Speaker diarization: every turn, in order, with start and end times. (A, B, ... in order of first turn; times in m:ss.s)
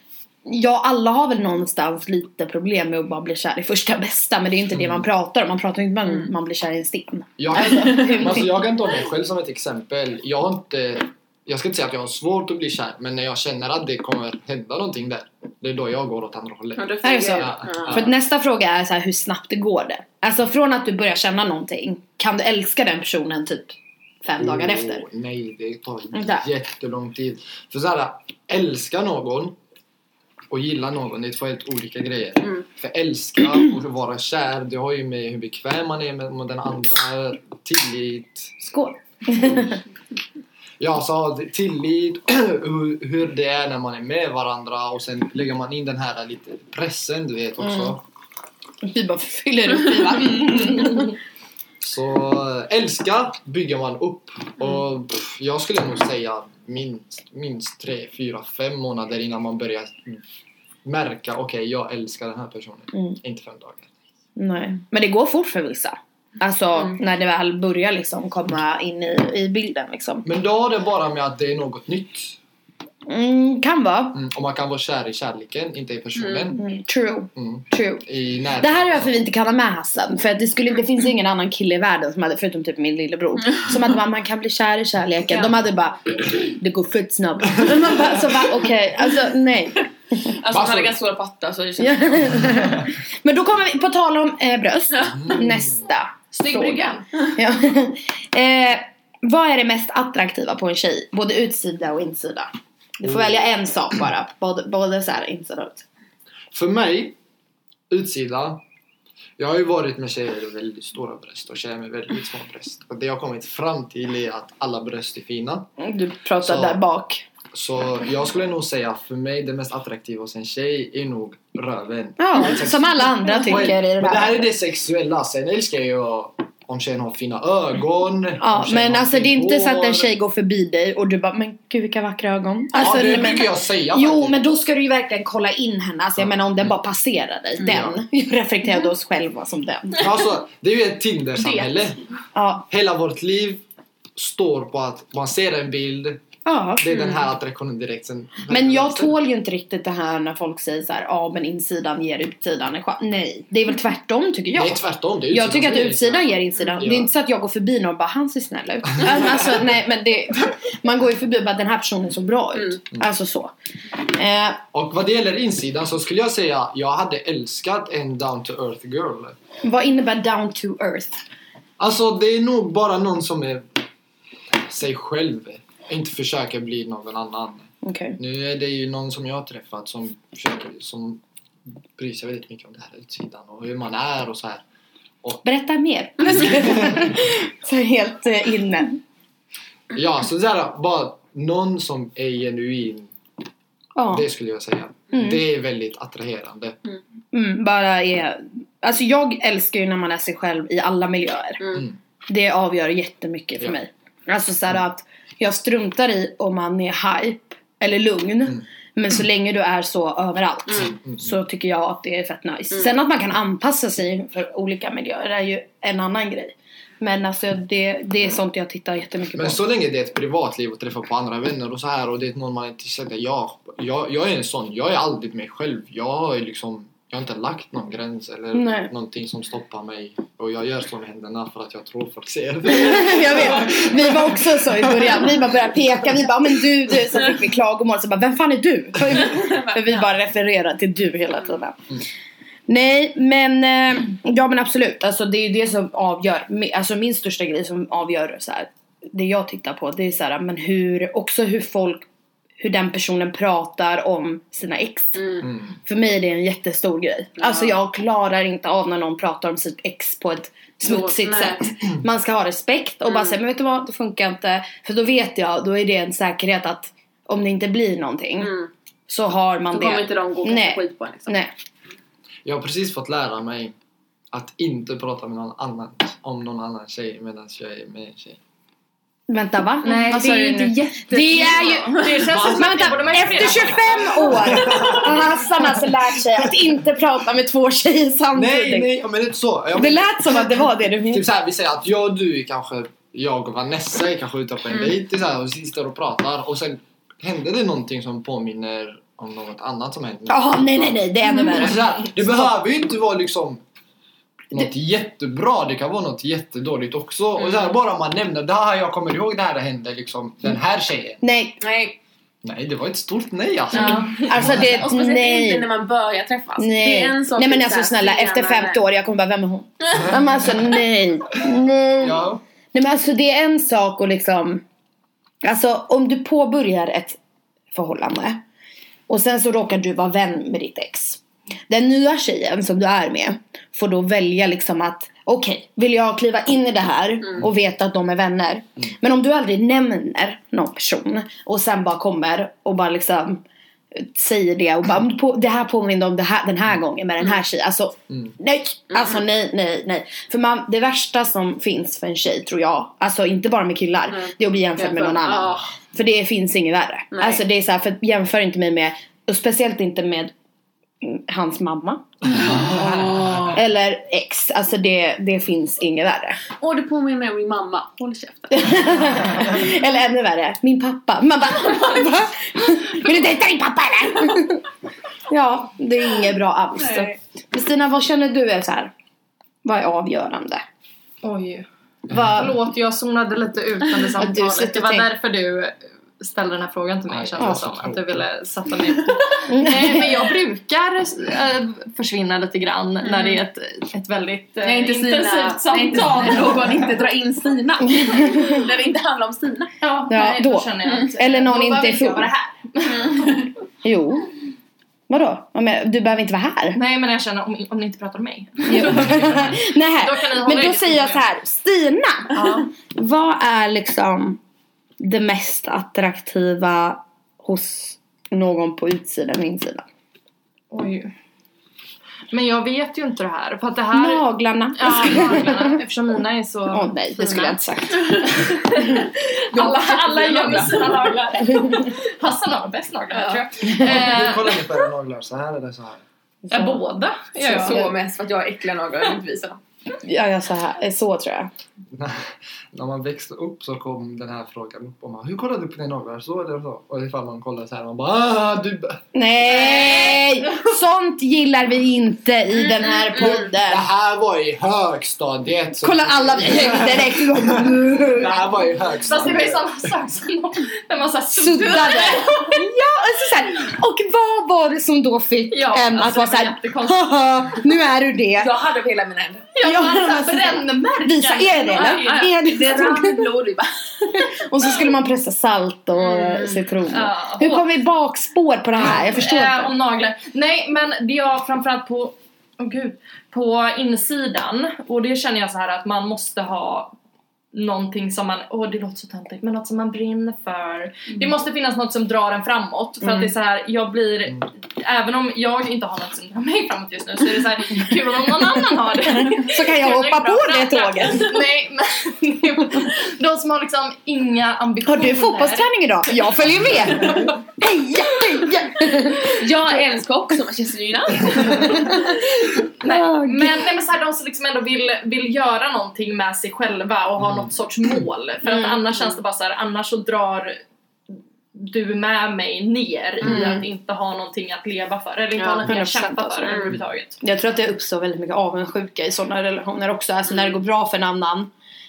0:00.4-0:08.6 A
0:04.7-0:05.0 B
0:07.4-0:18.1 B
0:16.8-0:18.0 C
0:17.0-0:25.0 A
0:24.4-0:29.6 B
0:26.1-0:26.4 A
0:30.5-0:38.6 B
0:38.6-0:39.8 A
0:40.8-0:48.0 B
0:47.6-0:47.9 A
0:48.8-0:51.2 A
0:51.8-1:00.2 B
1:00.8-1:03.9 B
1:04.4-1:10.2 A
1:10.2-1:12.4 B
1:13.1-1:14.2 A
1:14.1-1:16.6 B
1:16.2-1:16.5 C
1:16.6-1:18.0 A
1:17.4-1:19.2 B
1:18.6-1:29.8 A
1:30.2-1:32.5 C
1:30.5-1:31.0 B
1:31.8-1:45.8 A
1:35.2-1:35.5 B
1:36.3-1:37.1 D
1:43.0-1:43.5 B
1:46.5-1:47.2 B
1:47.9-1:48.6 B
1:49.4-1:55.7 B
1:55.8-1:57.2 A
1:56.4-1:56.8 B
1:57.5-2:10.1 B
2:02.2-2:04.4 A
2:08.4-2:20.1 A
2:12.7-2:14.4 B
2:16.2-2:16.6 B
2:17.6-2:18.0 B
2:20.0-2:22.0 B
2:21.4-2:21.9 D
2:22.3-2:22.6 A
2:22.7-2:23.6 B
2:24.2-2:26.2 B
2:26.4-2:27.1 A
2:26.8-2:29.2 B
2:28.5-2:43.5 A
2:34.5-2:37.1 B
2:44.0-2:44.6 A
2:44.7-2:49.4 B
2:49.6-2:51.2 A
2:51.8-2:53.6 B
2:54.5-3:01.2 B
2:57.8-2:58.2 A
3:01.9-3:04.6 B
3:05.4-3:09.0 A
3:09.9-3:13.1 B
3:14.0-3:14.2 A
3:14.1-3:16.8 B
3:17.3-3:39.6 A
3:39.3-3:55.3 B
3:48.5-3:48.9 A
3:52.7-4:01.8 A
4:02.7-4:12.1 A
4:12.6-4:28.5 A
4:20.8-4:21.7 C
4:28.4-4:28.7 C
4:29.1-4:31.5 A
4:29.7-4:31.3 C
4:32.4-4:33.7 B
4:34.3-4:38.4 B
4:39.3-4:48.9 A
4:39.8-4:42.2 C
4:41.9-4:44.8 D
4:42.3-4:45.6 B
4:48.3-5:03.6 B
4:49.7-4:51.2 A
5:00.3-5:02.3 A
5:04.5-5:11.2 B
5:11.2-5:11.6 A
5:11.6-5:12.0 C
5:12.4-5:14.7 B
5:13.7-5:14.4 D
5:14.1-5:15.7 A
5:14.3-5:18.8 C
5:16.6-5:24.6 A
5:22.0-5:22.4 B
5:25.4-5:27.2 A
5:27.7-5:28.4 A
5:29.1-5:43.4 A
5:43.9-6:00.3 A
5:54.1-5:55.7 C
5:57.1-5:57.4 C
6:01.0-6:06.4 A
6:02.5-6:03.5 C
6:06.6-6:09.2 C
6:08.5-6:14.6 A
6:15.3-6:18.9 A
6:16.8-6:17.1 C
6:19.6-6:20.6 A
6:21.2-6:21.7 D
6:22.1-6:22.4 B
6:22.1-6:22.5 A
6:22.2-6:37.0 D
6:24.2-6:25.1 A
6:27.1-6:28.2 B
6:29.5-6:30.1 A
6:33.0-6:33.4 C
6:34.6-6:39.7 C
6:37.9-6:38.6 A
6:39.8-6:43.5 D
6:40.1-6:42.3 A
6:42.8-6:43.5 C
6:43.8-6:44.3 A
6:45.1-6:46.8 A
6:46.7-6:51.2 D
6:48.7-6:54.4 A
6:52.3-6:52.6 D
6:55.0-6:59.8 A
7:00.7-7:01.1 D
7:02.3-7:04.2 D
7:03.9-7:05.8 A
7:04.8-7:07.3 D
7:06.7-7:09.0 A
7:07.2-7:07.5 C
7:08.2-7:14.8 D
7:09.5-7:11.1 C
7:13.1-7:13.4 C
7:13.7-7:16.0 B
7:16.5-7:16.8 A
7:16.5-7:17.9 D
7:17.4-7:17.9 A
7:17.4-7:19.6 C
7:20.0-7:21.5 A
7:21.9-7:29.0 B
7:29.1-7:33.8 A
7:29.6-7:30.4 D
7:33.5-7:39.9 B
7:35.8-7:38.4 A
7:39.0-7:42.6 D
7:41.3-7:48.5 A
7:45.5-7:47.6 D
7:48.4-7:49.5 C
7:49.5-7:52.3 D
7:49.6-7:53.2 A
7:51.7-7:54.3 C
7:54.2-7:59.7 A
7:56.0-7:56.6 C
7:56.9-7:57.6 D
7:58.8-8:06.9 D
8:07.5-8:25.7 D
8:13.0-8:13.3 A
8:19.3-8:21.4 A
8:24.8-8:29.4 A
8:29.1-8:32.2 C
8:31.5-8:32.0 A
8:32.8-8:40.6 D
8:32.8-8:33.6 A
8:37.2-8:37.5 B
8:41.5-8:47.2 D
8:43.2-8:43.6 C
8:43.3-8:43.6 A
8:45.4-8:45.7 C
8:45.6-8:46.7 A
8:46.4-8:46.8 C
8:47.2-8:51.5 A